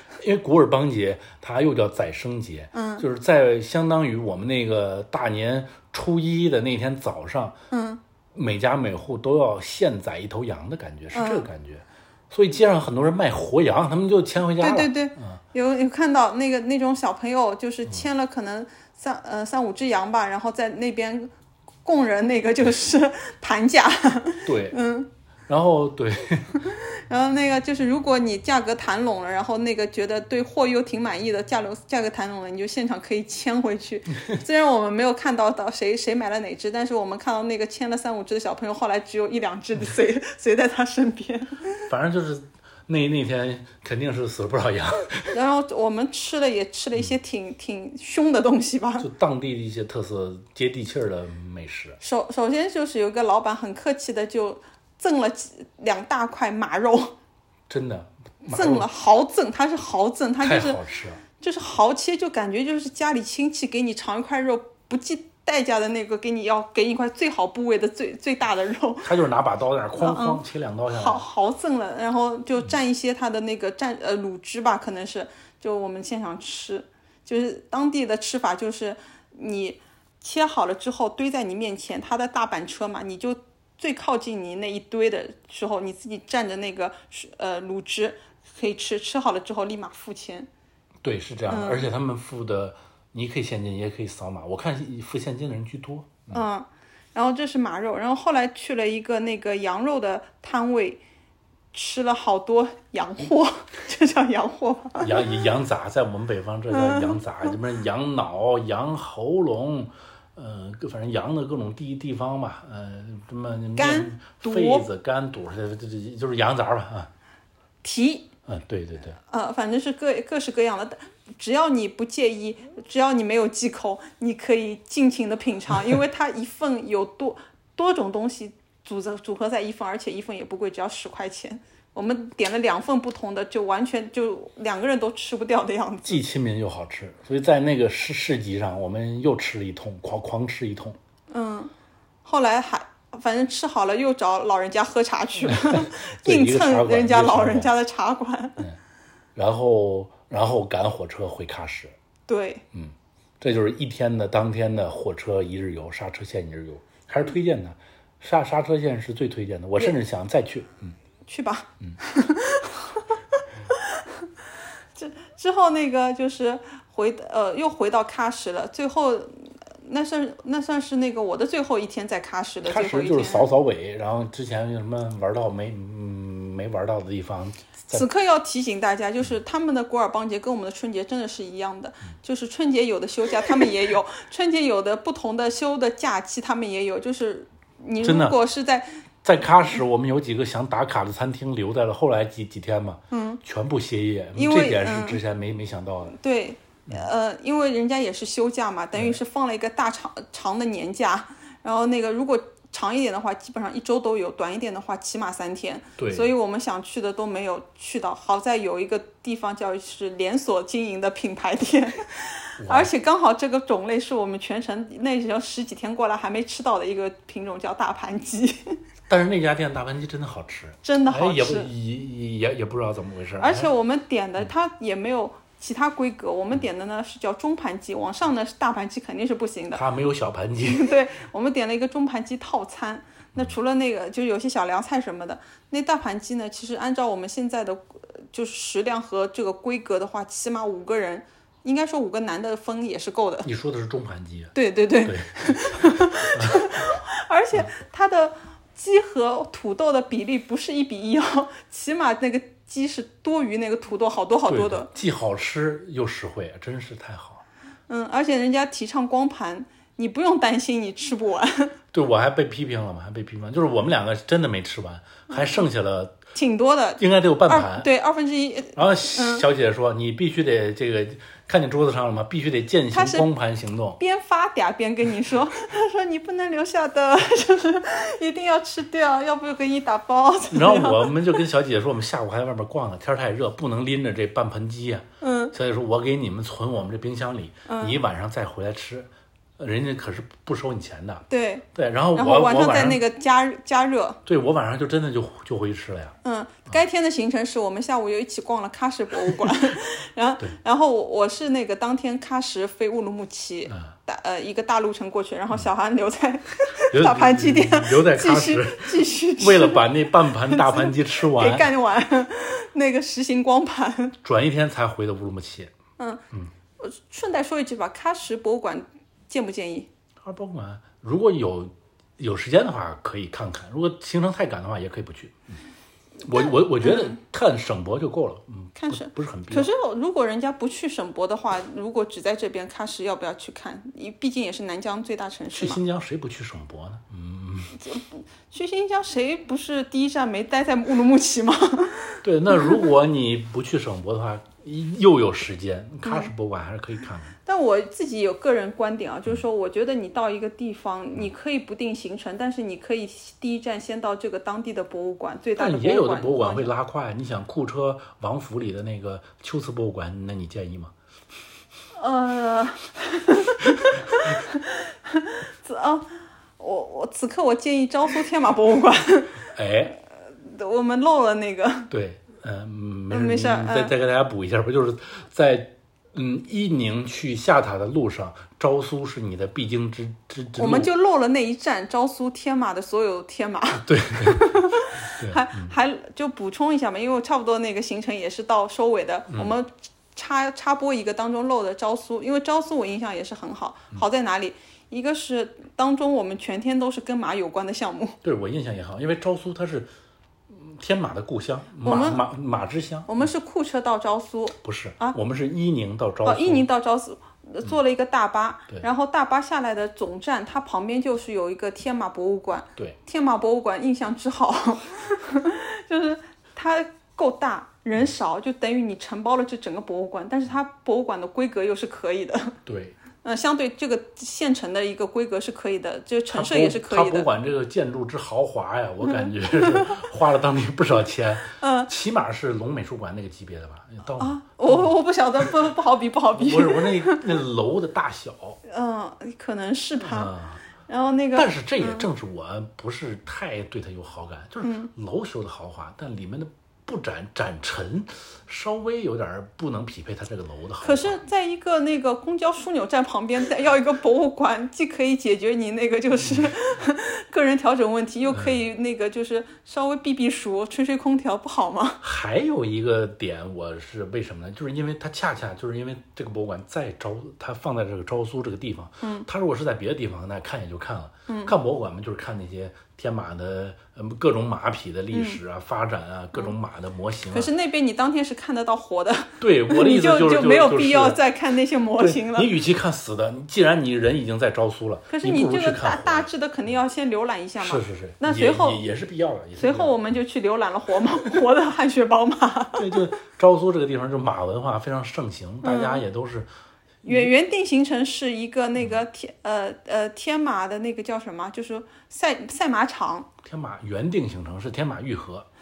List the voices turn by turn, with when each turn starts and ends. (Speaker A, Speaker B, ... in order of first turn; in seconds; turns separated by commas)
Speaker A: 0.2-7.6, Speaker B: 2.7-3.0, Speaker B: 7.7-8.0, Speaker A: 8.3-15.4, Speaker B: 11.1-11.4, Speaker B: 14.6-21.3, Speaker B: 21.8-25.1, Speaker A: 24.4-24.8, Speaker A: 25.5-26.6, Speaker B: 26.5-41.9, Speaker A: 41.9-45.3, Speaker B: 45.3-49.1, Speaker A: 49.0-52.0, Speaker B: 52.0-57.1, Speaker A: 57.7-58.9, Speaker B: 58.5-60.8, Speaker A: 60.4-61.2, Speaker B: 61.4-69.1, Speaker A: 69.0-71.2, Speaker B: 70.0-70.4, Speaker B: 70.9-90.5, Speaker A: 91.0-96.4, Speaker B: 91.5-91.9, Speaker B: 96.3-101.0, Speaker B: 101.7-105.3, Speaker A: 105.0-117.1, Speaker B: 106.7-107.5, Speaker B: 113.7-114.9, Speaker B: 117.8-118.3, Speaker A: 118.5-119.2, Speaker B: 119.3-136.2, Speaker A: 136.0-141.0, Speaker B: 141.3-141.7, Speaker B: 142.2-148.6, Speaker A: 145.4-147.7, Speaker A: 149.3-151.9, Speaker B: 152.3-152.6, Speaker A: 152.7-160.9, Speaker B: 161.3-164.3, Speaker B: 164.9-173.5, Speaker A: 172.7-178.1, Speaker B: 177.9-189.0, Speaker A: 188.0-188.4, Speaker A: 189.2-196.2, Speaker B: 193.1-193.4, Speaker B: 194.3-195.2, Speaker B: 196.2-218.8, Speaker A: 198.9-199.2, Speaker A: 206.0-206.3, Speaker A: 212.6-212.9, Speaker A: 219.1-223.7, Speaker B: 220.8-221.7, Speaker B: 223.4-229.8, Speaker A: 229.7-230.9, Speaker B: 230.7-243.5, Speaker A: 243.4-246.8, Speaker B: 244.5-254.9, Speaker A: 254.5-257.4, Speaker B: 257.9-261.7, Speaker A: 261.9-266.2, Speaker B: 265.3-265.6, Speaker B: 266.3-269.4, Speaker A: 267.0-267.9, Speaker A: 268.7-274.0, Speaker B: 272.9-273.3, Speaker B: 274.0-281.2, Speaker A: 280.5-293.0, Speaker B: 285.2-285.5, Speaker B: 287.6-288.0, Speaker B: 291.3-294.2, Speaker A: 294.2-296.1, Speaker B: 296.2-314.1, Speaker A: 303.7-303.9, Speaker A: 306.9-311.7, Speaker A: 314.2-315.7, Speaker B: 316.8-319.9, Speaker A: 320.2-325.4, Speaker A: 326.2-329.7, Speaker B: 326.3-327.2, Speaker B: 328.8-335.8, Speaker A: 335.5-337.8, Speaker B: 337.8-342.9, Speaker A: 342.2-347.3, Speaker B: 346.0-346.3, Speaker B: 347.4-356.7, Speaker A: 355.6-360.9, Speaker B: 361.9-369.4, Speaker A: 369.5-369.9, Speaker B: 370.4-371.9, Speaker A: 371.9-380.9, Speaker B: 373.1-373.9, Speaker B: 380.6-398.2, Speaker A: 383.8-385.7, Speaker A: 389.3-389.5, Speaker A: 398.2-399.9, Speaker A: 400.5-403.3, Speaker B: 401.8-402.2, Speaker B: 403.1-405.2, Speaker A: 404.6-406.6, Speaker B: 406.2-422.6, Speaker A: 422.6-422.9, Speaker B: 423.2-427.3, Speaker A: 426.3-434.9, Speaker B: 429.1-430.0, Speaker B: 431.6-431.9, Speaker B: 434.2-437.2, Speaker A: 436.3-438.6, Speaker B: 438.7-440.3, Speaker A: 440.0-440.6, Speaker B: 440.9-442.1, Speaker A: 441.3-451.2, Speaker B: 444.6-444.9, Speaker B: 450.8-462.0, Speaker A: 462.0-477.5, Speaker B: 469.0-469.3, Speaker B: 471.3-471.5, Speaker B: 475.1-475.4, Speaker B: 477.3-482.5, Speaker A: 479.4-481.2, Speaker A: 482.0-486.3, Speaker B: 485.1-488.8, Speaker A: 487.6-490.0, Speaker B: 489.6-493.0, Speaker A: 492.7-496.5, Speaker B: 495.6-496.0, Speaker A: 497.0-497.3, Speaker B: 497.0-503.3, Speaker A: 503.4-505.5